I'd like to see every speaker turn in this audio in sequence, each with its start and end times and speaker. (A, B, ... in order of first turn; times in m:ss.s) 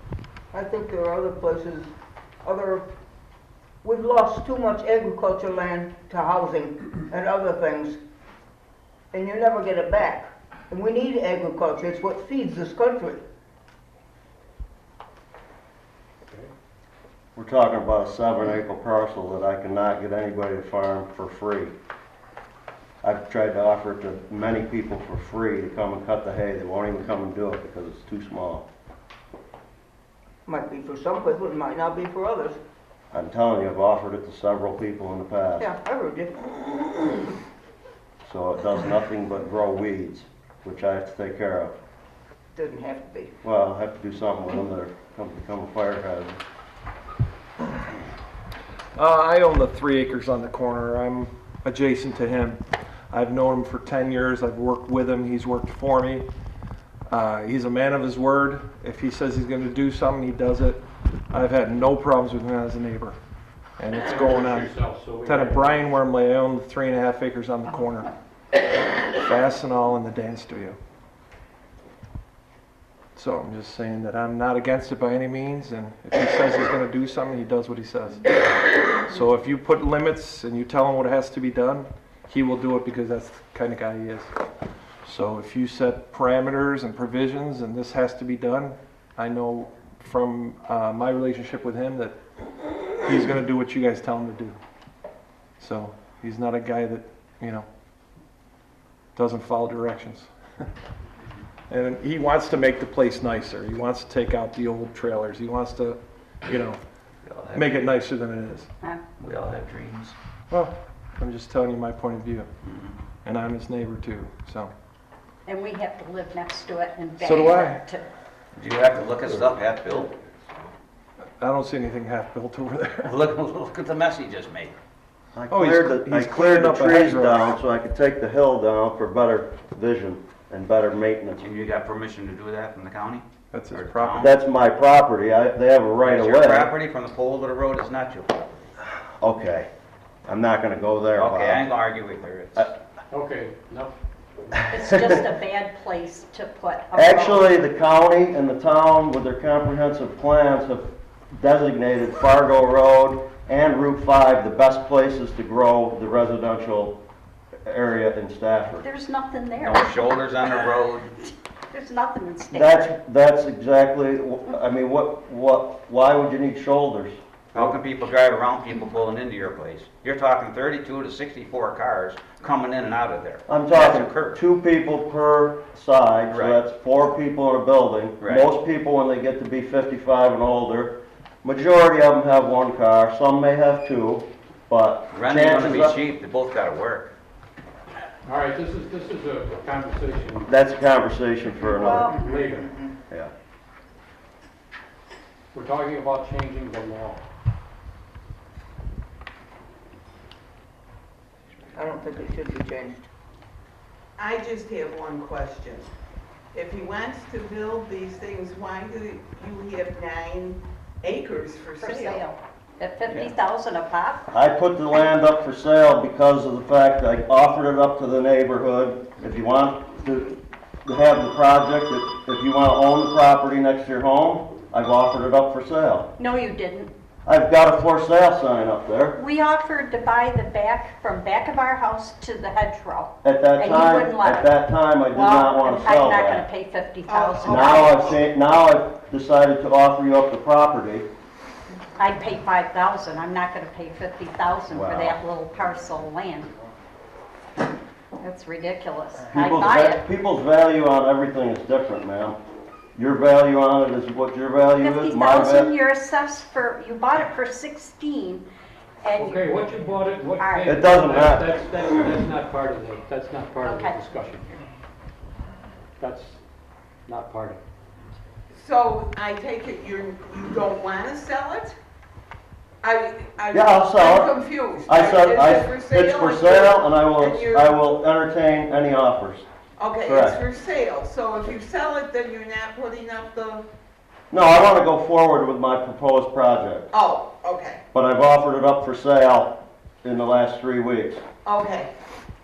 0:00.5-0:01.9 A
0:02.4-0:02.8 A
0:03.8-0:08.0 A
0:09.1-0:13.2 A
0:17.4-0:21.7 B
0:23.0-0:28.7 B
0:30.5-0:32.6 A
0:33.1-0:35.7 B
0:35.6-0:37.1 A
0:38.2-0:41.8 B
0:42.6-0:43.3 A
0:43.4-0:46.4 B
0:49.0-0:52.6 C
0:53.1-0:56.3 C
0:57.1-1:03.2 C
1:03.8-1:08.1 C
1:04.0-1:05.9 D
1:09.2-1:10.8 C
1:13.2-1:18.4 C
1:19.0-1:24.3 C
1:25.0-1:32.2 C
1:33.0-1:34.6 C
1:35.6-1:37.7 C
1:39.2-1:40.3 C
1:41.7-1:46.8 C
1:47.2-1:47.8 E
1:47.5-1:48.7 C
1:49.2-1:50.2 E
1:50.5-1:52.5 C
1:52.6-1:53.0 E
1:53.2-1:54.7 C
1:55.5-1:58.0 F
1:57.2-1:57.8 C
1:58.6-2:00.1 E
2:01.4-2:03.1 C
2:03.0-2:04.7 E
2:05.4-2:11.5 B
2:05.5-2:07.5 C
2:11.4-2:14.3 E
2:13.5-2:14.3 C
2:14.2-2:16.7 B
2:16.0-2:18.6 E
2:19.2-2:19.7 B
2:20.3-2:21.7 B
2:21.2-2:22.7 E
2:23.1-2:24.0 D
2:24.7-2:27.5 F
2:24.8-2:25.2 B
2:27.0-2:37.0 B
2:37.7-2:38.8 B
2:38.8-2:42.9 F
2:39.6-2:41.1 E
2:42.5-2:47.8 B
2:47.5-2:54.4 E
2:53.5-3:06.0 B
2:56.3-2:56.6 E
2:58.2-2:58.5 E
3:05.1-3:07.1 E
3:08.2-3:10.5 D
3:10.5-3:12.1 B
3:11.6-3:13.0 A
3:11.8-3:12.7 D
3:15.5-3:17.2 D
3:21.7-3:23.1 A
3:24.2-3:25.9 G
3:26.5-3:32.3 G
3:31.8-3:34.2 F
3:34.3-3:46.1 B
3:46.2-3:46.9 F
3:47.2-3:49.2 B
3:49.2-3:54.5 F
3:53.2-3:56.5 B
3:55.2-3:58.1 F
3:57.1-3:58.2 G
3:57.5-4:01.1 B
4:02.0-4:06.5 F
4:04.7-4:05.2 B
4:08.2-4:10.0 F
4:09.3-4:12.4 B
4:13.0-4:15.7 B
4:14.8-4:18.4 F
4:19.0-4:19.5 F
4:19.2-4:24.6 D
4:20.4-4:21.1 F
4:20.7-4:21.5 B
4:23.6-4:24.0 F
4:26.0-4:26.4 D
4:27.1-4:27.6 D
4:28.5-4:31.8 G
4:32.8-4:37.8 G
4:33.5-4:34.3 B
4:34.9-4:39.5 B
4:39.8-4:43.7 G
4:40.1-4:40.4 B
4:44.3-4:46.9 B
4:46.9-4:47.8 G
4:47.9-4:51.2 B
4:51.4-4:51.9 G